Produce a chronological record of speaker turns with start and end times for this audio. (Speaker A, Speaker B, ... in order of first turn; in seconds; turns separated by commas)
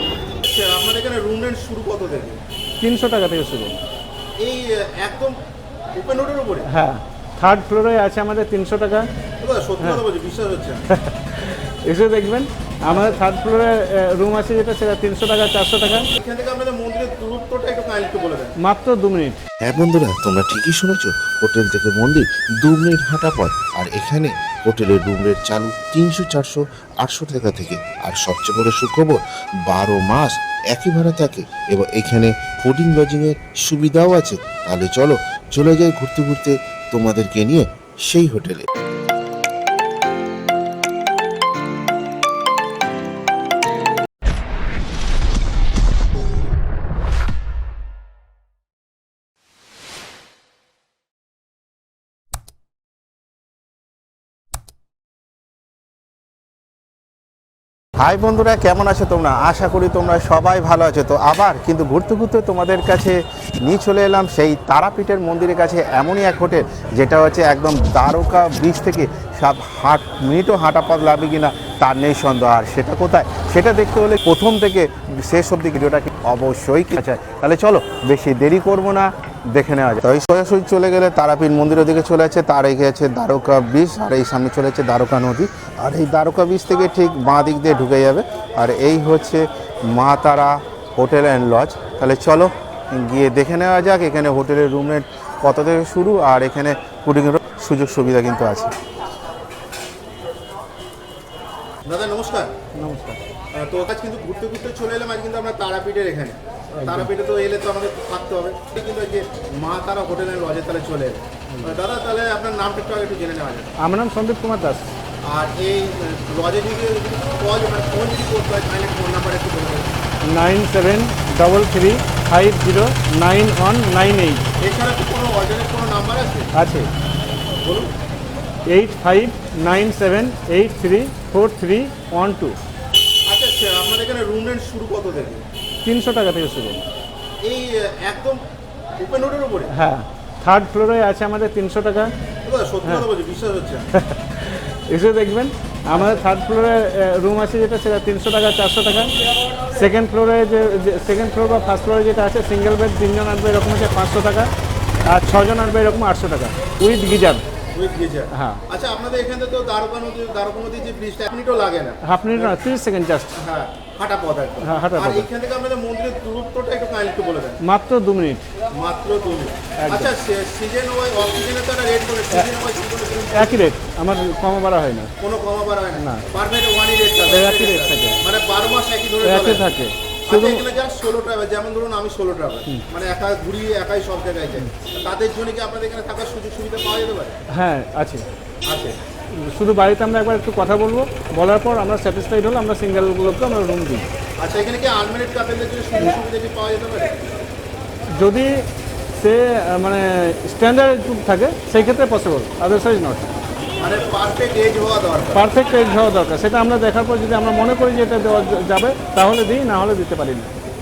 Speaker A: 0.4-2.4, Speaker B: 2.8-3.8, Speaker A: 4.4-5.4, Speaker A: 6.0-6.7, Speaker B: 6.7-9.1, Speaker A: 9.4-10.8, Speaker B: 10.9-16.1, Speaker A: 16.2-18.6, Speaker B: 18.6-19.4, Speaker C: 19.6-38.6, Speaker A: 58.0-98.7, Speaker A: 101.9-102.5, Speaker B: 102.8-103.2, Speaker A: 103.5-113.7, Speaker B: 106.8-107.1, Speaker B: 111.5-111.8, Speaker B: 113.8-114.9, Speaker A: 115.2-119.9, Speaker B: 120.2-124.5, Speaker A: 124.6-126.5, Speaker B: 126.6-126.9, Speaker A: 127.6-127.9, Speaker B: 128.7-132.6, Speaker A: 133.3-135.4, Speaker B: 135.8-136.8, Speaker A: 137.4-138.4, Speaker A: 139.0-139.7, Speaker B: 139.7-142.1, Speaker A: 142.4-143.8, Speaker B: 143.9-149.1, Speaker A: 145.9-146.2, Speaker B: 149.7-154.5, Speaker B: 155.1-157.4, Speaker A: 157.7-162.6, Speaker B: 158.3-158.6, Speaker B: 162.0-163.3, Speaker A: 163.4-167.6, Speaker B: 164.6-165.3, Speaker B: 167.6-168.4, Speaker A: 168.8-173.6, Speaker B: 169.8-170.1, Speaker B: 173.3-175.1, Speaker A: 175.2-179.7, Speaker B: 176.0-176.2, Speaker B: 177.3-178.2, Speaker B: 179.2-180.6, Speaker A: 180.3-187.4, Speaker B: 187.5-188.3, Speaker A: 188.7-189.0, Speaker B: 189.3-194.1, Speaker A: 194.4-197.2, Speaker B: 198.2-198.6, Speaker B: 199.2-203.3, Speaker A: 203.8-205.4, Speaker B: 205.3-210.5